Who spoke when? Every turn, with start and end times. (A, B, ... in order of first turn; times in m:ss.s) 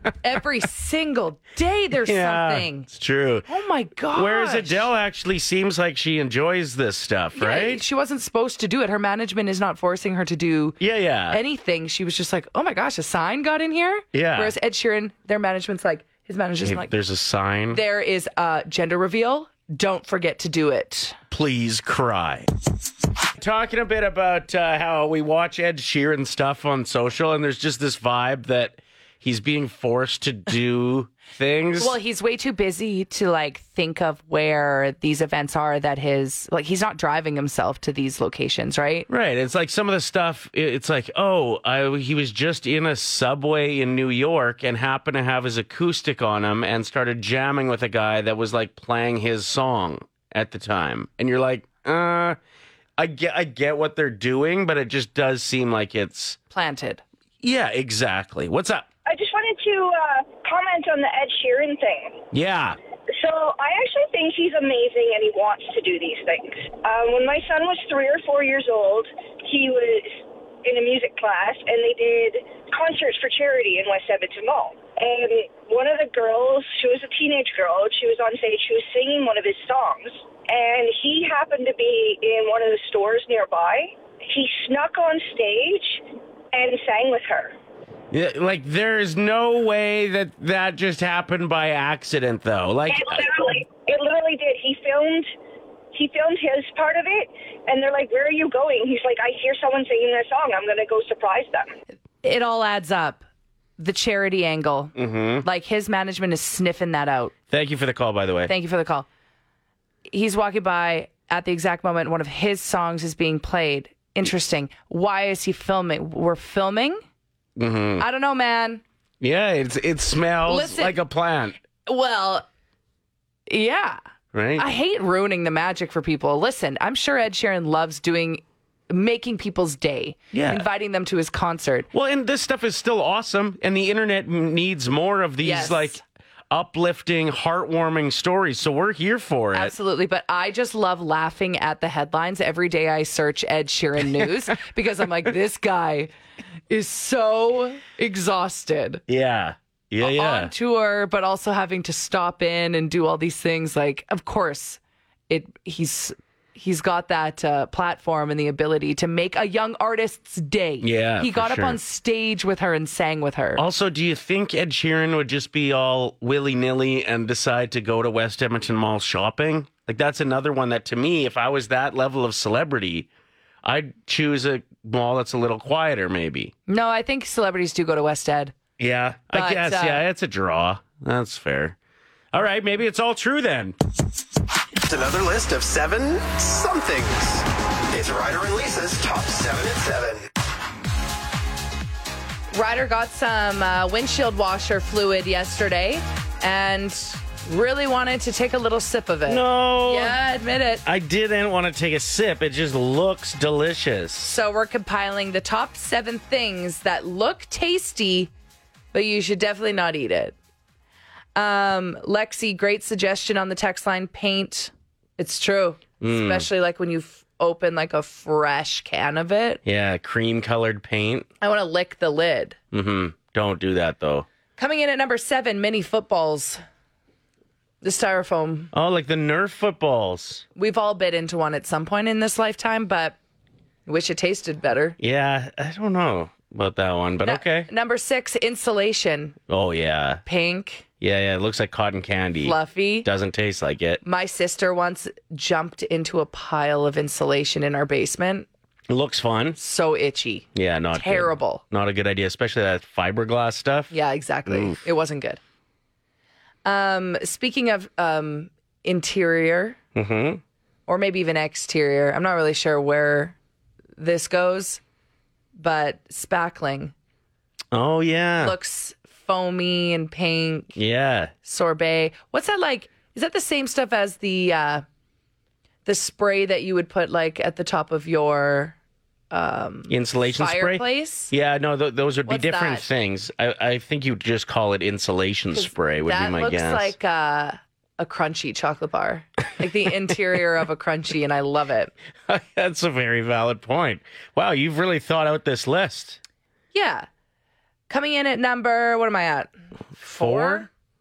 0:00.2-0:02.9 A
0:02.0-0:03.5 B
0:03.5-0:04.8 A
0:04.1-0:07.8 B
0:07.4-0:10.8 A
0:10.8-0:11.4 B
0:11.3-0:16.9 A
0:14.1-0:14.5 B
0:16.6-0:17.8 B
0:17.7-0:21.2 A
0:21.3-0:22.5 B
0:23.4-0:32.0 B
0:31.8-0:39.1 A
0:39.1-0:52.4 B
0:53.0-0:56.4 B
0:56.5-0:57.0 A
0:57.4-0:58.9 B
0:59.0-1:02.2 C
1:02.3-1:02.8 B
1:03.1-1:27.5 C
1:28.1-1:33.3 B
1:32.9-1:35.3 C
1:35.9-1:41.8 C
1:42.2-1:43.2 A
1:43.8-1:47.3 A
1:45.0-1:45.4 B
1:47.5-1:48.5 B
1:48.5-1:49.1 A
1:50.1-1:57.0 A
1:57.6-1:58.0 B
1:58.0-1:58.8 A
1:59.2-2:01.6 B
2:00.5-2:01.0 A
2:01.8-2:02.4 A
2:03.5-2:04.0 A
2:04.3-2:04.6 B
2:04.6-2:11.9 A
2:10.3-2:10.6 B
2:11.9-2:16.0 B
2:15.4-2:16.0 A
2:16.5-2:19.7 B
2:19.5-2:26.1 A
2:26.7-2:29.0 A
2:29.1-2:30.5 B
2:30.0-2:43.6 A
2:40.8-2:41.8 B
2:43.6-2:53.1 B
2:53.6-2:56.5 B
2:56.7-2:58.5 A
2:58.8-3:01.8 B
2:59.3-3:00.0 A
3:02.3-3:03.8 B
3:04.8-3:10.3 D
3:12.5-3:20.8 A
3:19.3-3:20.2 B
3:20.8-3:24.4 B
3:24.2-3:28.3 A
3:28.9-3:30.3 A
3:31.4-3:39.6 A
3:36.0-3:36.5 B
3:39.6-3:41.3 B
3:41.4-3:42.6 A
3:42.7-3:44.2 B
3:44.6-3:46.6 A
3:47.8-3:48.7 A
3:48.7-3:50.4 B
3:50.6-3:53.2 A
3:53.8-3:55.0 A
3:55.0-3:57.7 B
3:57.2-3:59.4 A
3:59.5-4:00.2 B
4:00.2-4:00.8 A
4:01.0-4:04.0 B
4:02.4-4:03.1 A
4:04.0-4:08.5 A
4:08.9-4:09.6 B
4:09.6-4:11.6 A
4:10.5-4:13.9 B
4:13.9-4:15.4 A
4:14.5-4:14.8 B
4:16.6-4:19.8 A
4:19.9-4:20.4 B
4:20.9-4:23.4 A
4:24.0-4:24.8 A
4:25.6-4:26.9 A
4:27.7-4:28.6 B
4:28.4-4:30.8 A
4:30.8-4:31.3 B
4:31.4-4:34.8 A
4:35.8-4:38.8 A
4:39.3-4:41.3 A
4:39.9-4:46.9 B
4:42.2-4:42.9 A
4:45.5-4:51.9 A
4:52.3-4:56.2 B
4:56.7-4:57.1 A
4:57.9-5:00.7 A
5:00.0-5:00.7 B